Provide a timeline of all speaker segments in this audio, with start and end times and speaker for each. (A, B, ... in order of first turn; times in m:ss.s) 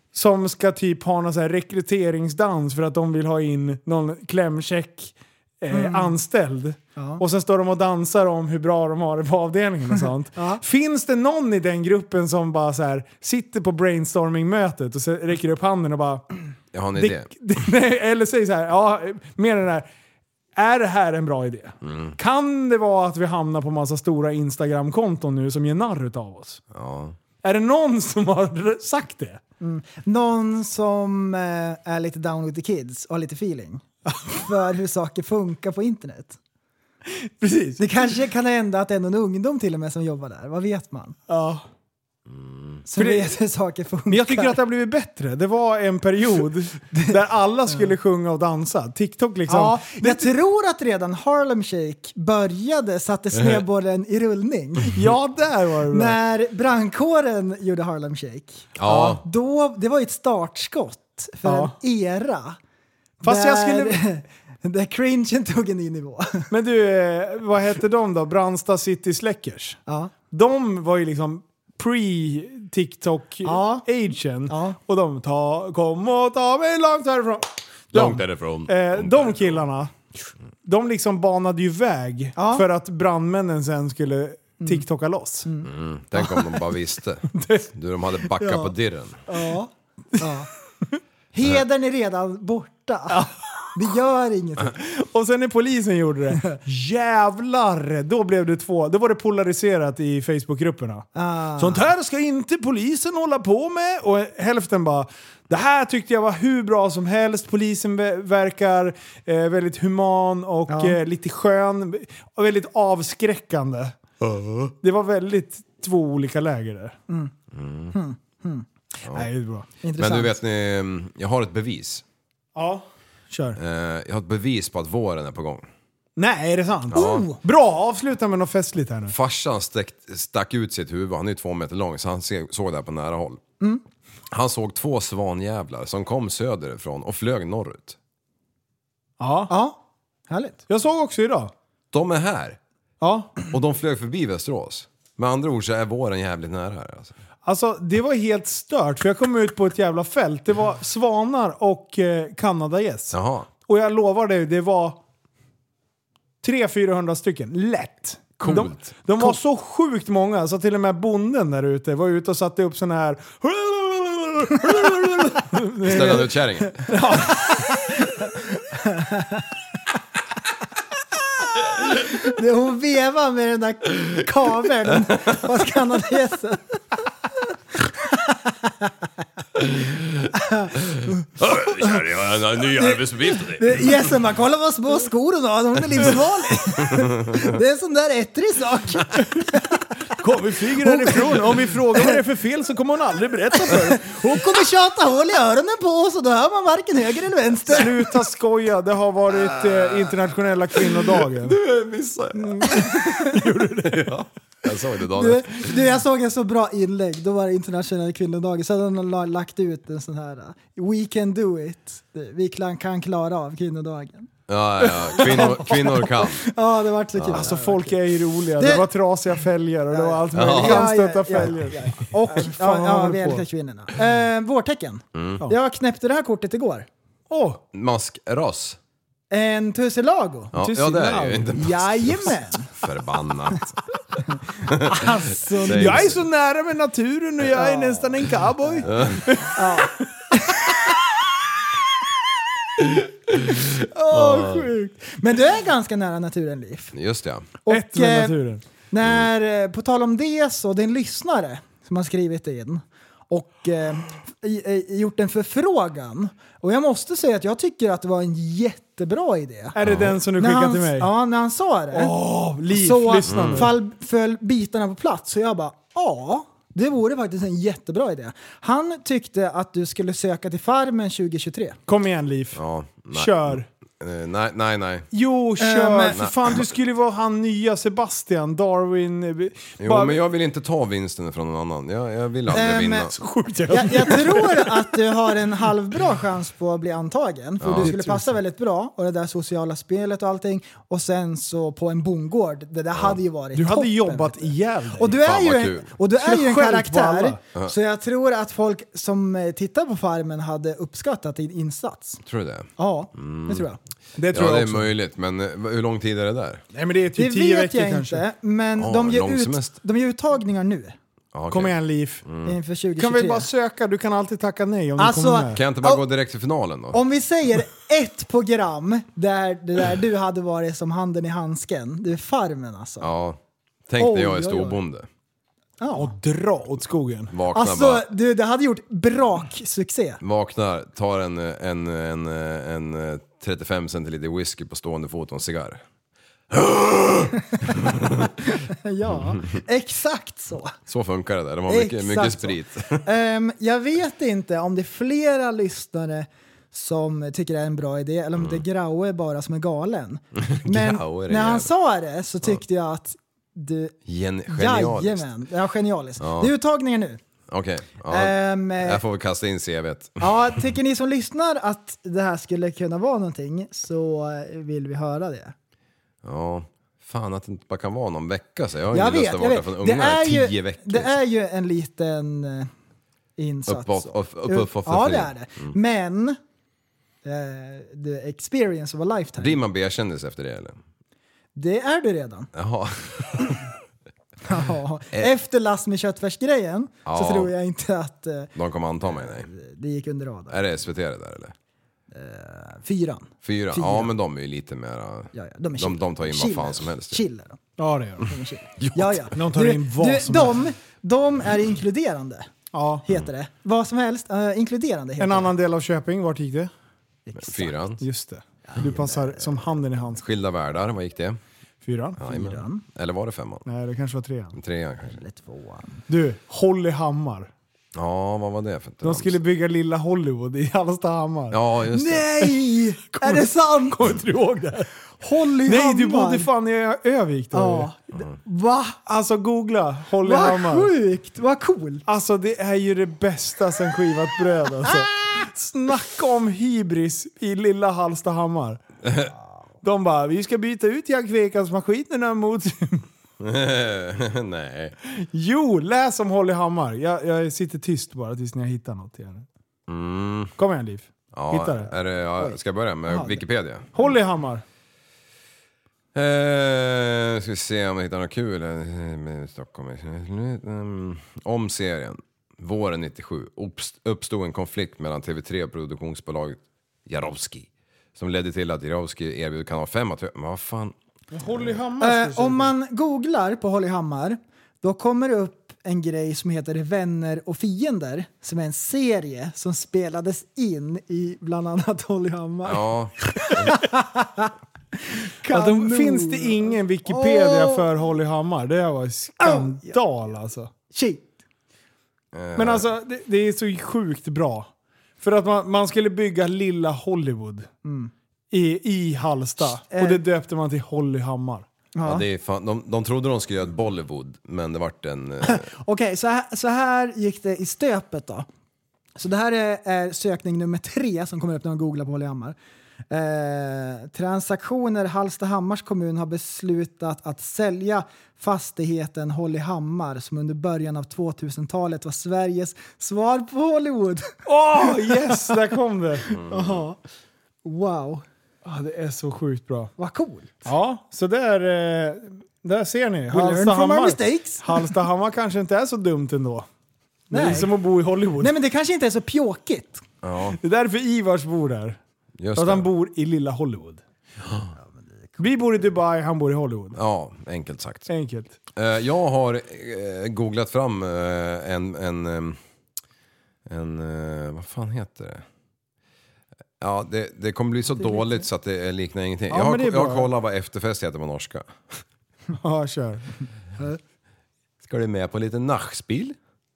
0:00.1-0:16.2 A
0:05.7-0:06.2 B
0:07.0-0:07.2 B
0:10.4-0:10.6 B
0:16.7-0:17.3 C
0:17.0-0:19.9 A
0:20.6-0:26.6 A
0:21.8-0:22.2 C
0:26.7-0:27.2 C
0:27.4-0:29.4 A
0:29.6-0:36.4 B
0:37.2-0:38.1 A
0:37.8-0:41.2 B
0:41.3-0:41.6 A
0:42.3-0:42.8 C
0:42.9-0:44.6 B
0:43.0-0:43.4 A
0:44.1-0:50.3 A
0:49.5-0:55.0 B
0:54.9-0:56.2 A
0:55.9-1:02.6 B
0:58.8-0:59.2 C
1:01.4-1:01.7 A
1:03.2-1:04.0 A
1:03.2-1:06.5 B
1:06.5-1:09.8 A
1:09.9-1:10.1 B
1:10.3-1:19.9 A
1:13.4-1:13.9 B
1:14.5-1:14.8 B
1:17.9-1:19.6 C
1:20.6-1:25.5 A
1:22.4-1:22.6 B
1:25.4-1:25.7 B
1:25.6-1:29.2 C
1:27.3-1:27.7 A
1:28.4-1:28.7 B
1:29.3-1:30.5 B
1:31.3-1:34.8 B
1:34.7-1:41.1 A
1:41.1-1:41.9 B
1:41.6-1:53.9 A
1:50.7-1:51.0 B
1:54.8-1:57.0 A
1:57.5-1:57.9 C
1:57.9-1:58.7 B
1:59.1-1:59.7 A
1:59.8-2:00.4 B
2:00.0-2:02.0 C
2:02.6-2:03.6 A
2:03.6-2:05.7 C
2:06.2-2:09.1 A
2:06.9-2:07.2 C
2:06.9-2:07.4 B
2:09.1-2:13.4 C
2:14.3-2:18.0 C
2:19.2-2:19.5 A
2:19.5-2:20.6 B
2:20.7-2:21.5 A
2:21.9-2:22.6 C
2:23.0-2:23.3 A
2:23.5-2:27.1 C
2:27.4-2:35.0 A
2:33.1-2:33.5 C
2:36.4-2:47.8 A
2:38.4-2:39.0 C
2:45.8-2:46.9 C
2:48.7-2:49.4 B
2:52.1-2:56.6 B
2:57.8-2:58.9 B
2:59.7-3:00.2 C
3:00.3-3:01.1 B
3:01.4-3:03.9 C
3:02.7-3:09.8 B
3:10.1-3:14.6 A
3:10.8-3:12.2 B
3:13.6-3:17.9 B
3:17.7-3:21.6 A
3:20.8-3:25.8 C
3:22.8-3:24.1 A
3:25.1-3:34.3 B
3:34.5-3:36.4 C
3:34.9-3:35.7 A
3:35.2-3:38.0 B
3:37.2-3:37.5 C
3:37.3-3:43.4 A
3:38.6-3:38.9 B
3:39.9-3:46.9 B
3:40.3-3:40.9 C
3:45.1-3:45.4 C
3:47.3-3:47.6 A
3:47.7-3:48.8 C
3:49.3-3:50.5 B
3:50.5-3:53.8 C
3:50.6-3:51.5 A
3:51.4-3:52.7 B
3:54.6-3:56.2 C
3:54.7-3:56.2 B
3:55.6-4:00.0 A
3:57.4-3:58.1 B
3:58.8-3:59.2 C
3:59.5-4:00.6 B
4:02.8-4:04.6 C
4:03.9-4:06.9 B
4:06.9-4:07.5 C
4:07.6-4:08.4 B
4:07.7-4:08.6 A
4:08.9-4:19.8 B
4:19.7-4:21.1 A
4:19.8-4:20.2 C
4:20.4-4:22.1 B
4:21.9-4:23.7 A
4:22.7-4:31.8 B
4:23.3-4:23.7 C
4:31.9-4:33.6 A
4:32.5-4:35.1 C
4:35.1-4:40.2 A
4:35.6-4:36.2 B
4:36.1-4:36.7 C
4:39.8-4:43.1 C
4:42.5-4:43.1 B
4:43.1-4:44.9 A
4:43.7-5:02.2 B
4:47.6-4:47.9 C
4:47.8-4:48.4 A
4:53.5-4:55.2 A
4:55.1-4:55.9 C
4:56.2-4:57.4 A
5:02.2-5:03.7 C
5:02.8-5:03.8 B
5:04.2-5:04.9 A
5:04.3-5:06.6 C
5:06.7-5:08.2 A
5:07.2-5:11.0 B
5:08.8-5:09.7 C
5:11.3-5:12.5 C
5:11.5-5:12.2 A
5:12.4-5:13.5 B
5:13.0-5:15.6 A
5:15.0-5:16.0 B
5:15.5-5:17.0 C
5:16.9-5:23.1 B
5:23.0-5:25.1 C
5:24.0-5:24.8 B
5:25.8-5:26.1 B
5:25.9-5:27.3 A
5:27.3-5:28.0 C
5:27.5-5:30.2 B
5:30.2-5:35.8 C
5:36.5-5:38.3 C
5:38.2-5:40.7 B
5:40.9-5:43.0 C
5:41.7-5:53.9 B
5:48.4-5:48.6 C
5:50.4-5:51.7 C
5:54.0-5:55.3 C
5:54.5-5:57.2 B
5:56.2-5:56.5 C
5:57.5-6:00.3 C
5:58.1-5:59.0 B
6:00.2-6:05.5 B
6:06.2-6:11.1 C
6:08.9-6:12.7 B
6:13.4-6:16.4 B
6:13.7-6:15.7 C
6:17.2-6:19.6 B
6:19.4-6:20.8 C
6:21.5-6:22.5 B
6:22.5-6:23.7 C
6:24.4-6:28.5 B
6:27.0-6:27.5 C
6:28.6-6:29.5 C
6:29.0-6:30.6 B
6:30.5-6:31.5 C
6:32.1-6:34.1 B
6:33.4-6:37.2 C
6:35.3-6:37.6 B
6:37.8-6:38.3 A
6:38.2-6:42.5 B
6:38.8-6:39.3 C
6:39.3-6:40.6 A
6:42.7-6:43.0 A
6:43.0-6:45.5 B
6:45.2-6:46.7 A
6:47.2-6:47.8 B
6:47.3-6:48.0 C
6:48.0-6:50.2 A
6:48.6-6:49.5 B
6:50.2-6:51.4 C
6:51.8-6:52.2 A
6:52.2-6:53.6 C
6:52.2-6:52.8 B
6:53.6-6:54.6 A
6:54.6-6:55.2 C
6:55.1-6:56.0 B
6:56.1-6:57.5 A
6:57.9-6:59.4 C
6:59.0-7:01.6 A
7:01.5-7:02.3 C
7:01.9-7:04.1 B
7:03.1-7:04.9 A
7:05.2-7:06.5 B
7:05.6-7:07.9 A
7:07.5-7:09.0 B
7:09.0-7:10.9 A
7:10.2-7:12.0 B
7:12.1-7:18.8 A
7:19.8-7:23.0 A
7:23.4-7:25.0 C
7:25.1-7:29.4 A
7:29.9-7:30.5 C
7:30.6-7:31.9 A
7:31.3-7:33.9 C
7:33.1-7:33.4 B
7:33.9-7:34.6 A
7:36.1-7:50.9 C
7:51.3-7:52.7 A
7:52.0-8:04.5 B
8:02.6-8:03.7 C
8:05.3-8:07.9 B
8:05.5-8:10.7 A
8:09.4-8:10.0 B
8:10.9-8:11.3 B
8:12.3-8:12.8 C
8:12.6-8:14.7 A
8:15.2-8:17.7 A
8:17.8-8:18.1 B
8:18.5-8:21.7 A
8:19.9-8:20.2 B
8:21.9-8:22.2 B
8:22.0-8:25.7 C
8:25.4-8:28.5 B
8:29.2-8:32.6 B
8:33.1-8:45.6 B
8:44.4-8:46.3 A
8:46.3-8:47.0 B
8:46.3-8:46.8 C
8:47.6-8:48.2 B
8:48.6-8:49.9 A
8:50.0-8:50.7 B
8:50.6-8:56.6 A
8:53.3-8:55.0 B
8:57.3-8:58.5 A
8:57.3-8:57.7 B
8:58.4-9:00.0 B
9:00.2-9:00.6 C
9:00.6-9:02.0 A
9:02.4-9:02.9 C
9:02.5-9:04.0 A
9:04.4-9:04.7 C
9:04.8-9:05.4 B
9:05.4-9:07.0 A
9:06.9-9:08.1 C
9:08.1-9:08.6 A
9:08.7-9:12.6 C
9:13.6-9:15.4 C
9:16.8-9:22.0 C
9:18.0-9:18.4 B
9:19.5-9:20.3 A
9:22.5-9:23.3 A
9:24.8-9:26.4 C